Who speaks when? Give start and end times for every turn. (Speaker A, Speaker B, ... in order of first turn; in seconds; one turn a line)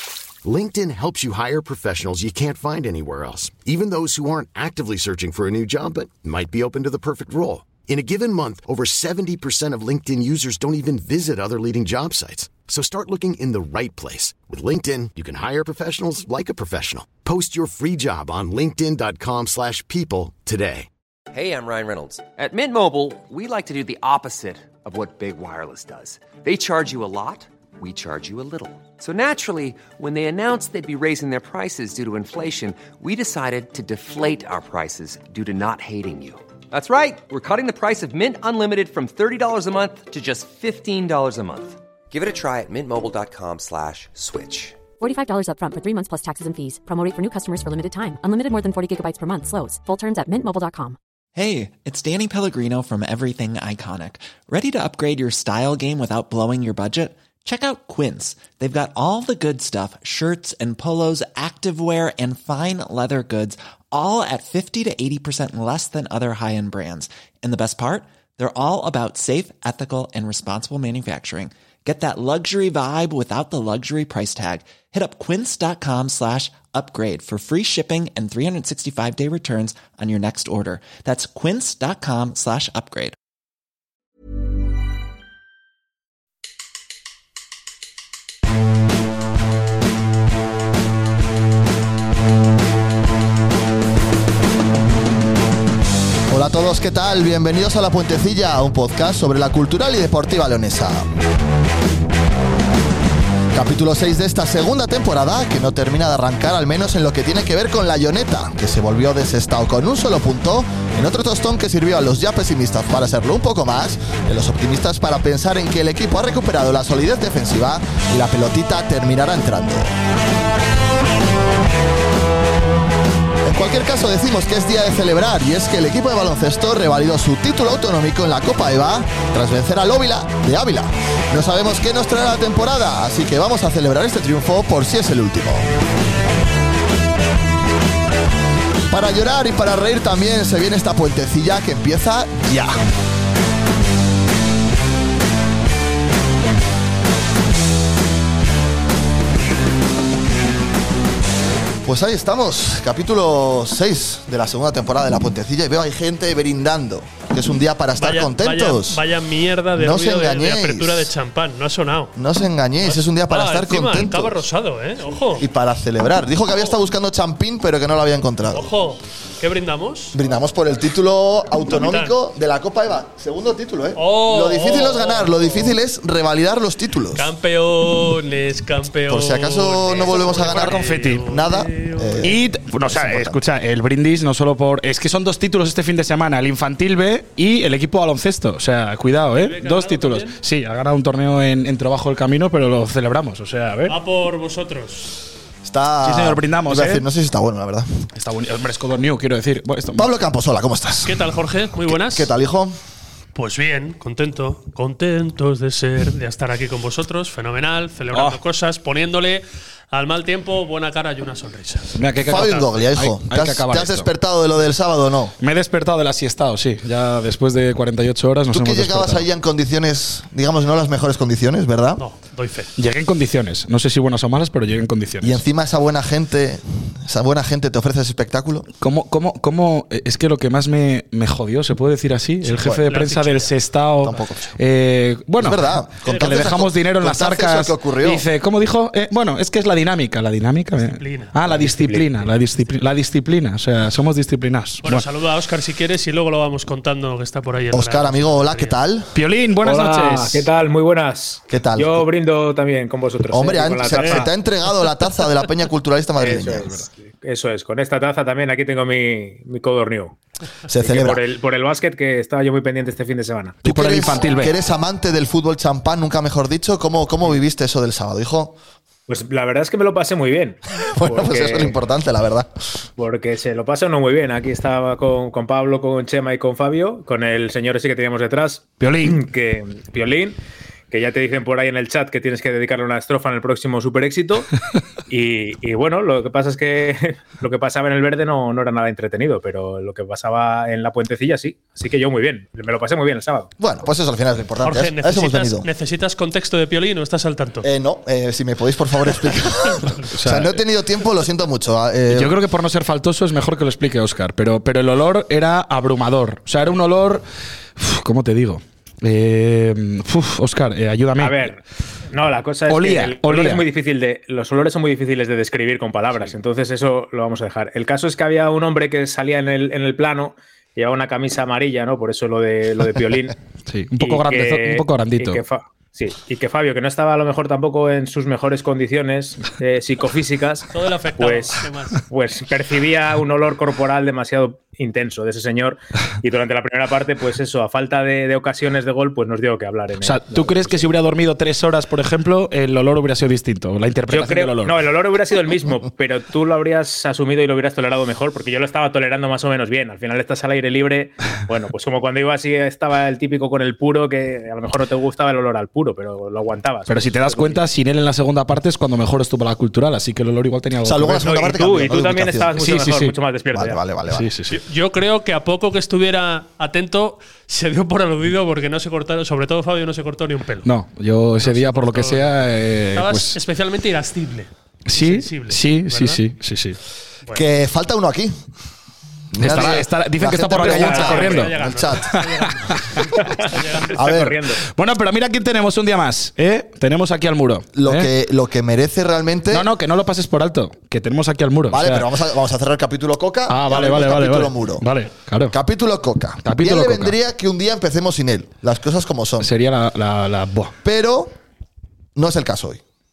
Speaker A: 0.4-20.9
Speaker B: 21.3-44.9
Speaker C: 45.0-51.0
Speaker D: 51.4-83.2
Speaker E: 96.3-101.1
Speaker E: 103.5-119.9
Speaker E: 123.4-135.7
Speaker E: 138.9-142.7
Speaker E: 151.8-159.0
Speaker F: 158.0-162.2
Speaker E: 159.7-161.1
Speaker E: 162.2-164.4
Speaker F: 162.8-165.4
Speaker E: 165.4-168.7
Speaker F: 168.5-170.2
Speaker E: 170.1-177.3
Speaker F: 171.7-172.2
Speaker F: 173.9-175.8
Speaker F: 177.1-182.3
Speaker E: 179.1-183.4
Speaker G: 180.2-181.2
Speaker G: 182.2-193.9
Speaker F: 189.3-190.4
Speaker F: 193.9-195.1
Speaker E: 195.6-198.0
Speaker G: 196.0-197.0
Speaker G: 198.1-200.1
Speaker E: 199.9-201.2
Speaker F: 201.0-202.3
Speaker E: 201.8-202.7
Speaker F: 203.3-212.5
Speaker G: 208.1-208.4
Speaker G: 212.0-214.1
Speaker E: 212.2-215.3
Speaker G: 215.4-219.2
Speaker E: 218.5-222.0
Speaker F: 222.0-222.7
Speaker G: 222.8-225.4
Speaker E: 225.2-228.7
Speaker G: 228.8-245.0
Speaker F: 232.4-233.5
Speaker E: 232.6-232.9
Speaker E: 234.0-234.6
Speaker E: 235.4-238.2
Speaker F: 236.0-236.3
Speaker F: 240.7-241.3
Speaker H: 241.4-242.3
Speaker F: 244.8-248.8
Speaker E: 247.7-249.1
Speaker G: 249.1-250.5
Speaker H: 249.6-254.3
Speaker E: 251.5-252.1
Speaker E: 253.3-256.8
Speaker G: 253.9-254.2
Speaker H: 256.2-260.2
Speaker E: 260.7-261.2
Speaker H: 260.7-263.6
Speaker G: 263.6-264.5
Speaker E: 263.6-268.6
Speaker H: 269.1-271.8
Speaker E: 270.9-272.5
Speaker H: 273.0-280.4
Speaker G: 278.8-279.2
Speaker H: 280.9-284.5
Speaker H: 285.1-293.5
Speaker E: 293.6-295.7
Speaker F: 294.6-297.6
Speaker E: 297.6-302.3
Speaker G: 300.1-300.6
Speaker G: 302.1-307.2
Speaker G: 307.8-311.5
Speaker H: 311.2-311.6
Speaker H: 312.1-323.4
Speaker G: 312.7-313.6
Speaker G: 323.7-325.4
Speaker H: 324.0-340.9
Speaker F: 330.7-332.0
Speaker G: 340.0-344.8
Speaker H: 344.1-357.6
Speaker G: 356.9-361.3
Speaker E: 360.8-362.8
Speaker H: 361.2-363.8
Speaker G: 362.6-363.1
Speaker E: 363.5-364.3
Speaker G: 364.1-364.6
Speaker F: 364.5-370.7
Speaker G: 370.6-373.4
Speaker F: 371.4-372.3
Speaker F: 372.9-376.2
Speaker G: 374.9-376.8
Speaker E: 377.3-378.4
Speaker E: 379.3-382.2
Speaker G: 379.4-383.0
Speaker F: 380.6-384.0
Speaker E: 383.9-384.4
Speaker H: 383.9-384.6
Speaker G: 384.7-388.1
Speaker E: 387.7-389.7
Speaker G: 389.5-392.1
Speaker E: 391.7-394.9
Speaker G: 393.5-395.5
Speaker E: 395.5-399.5
Speaker G: 396.4-397.1
Speaker G: 399.4-400.7
Speaker E: 400.8-401.3
Speaker E: 402.1-402.8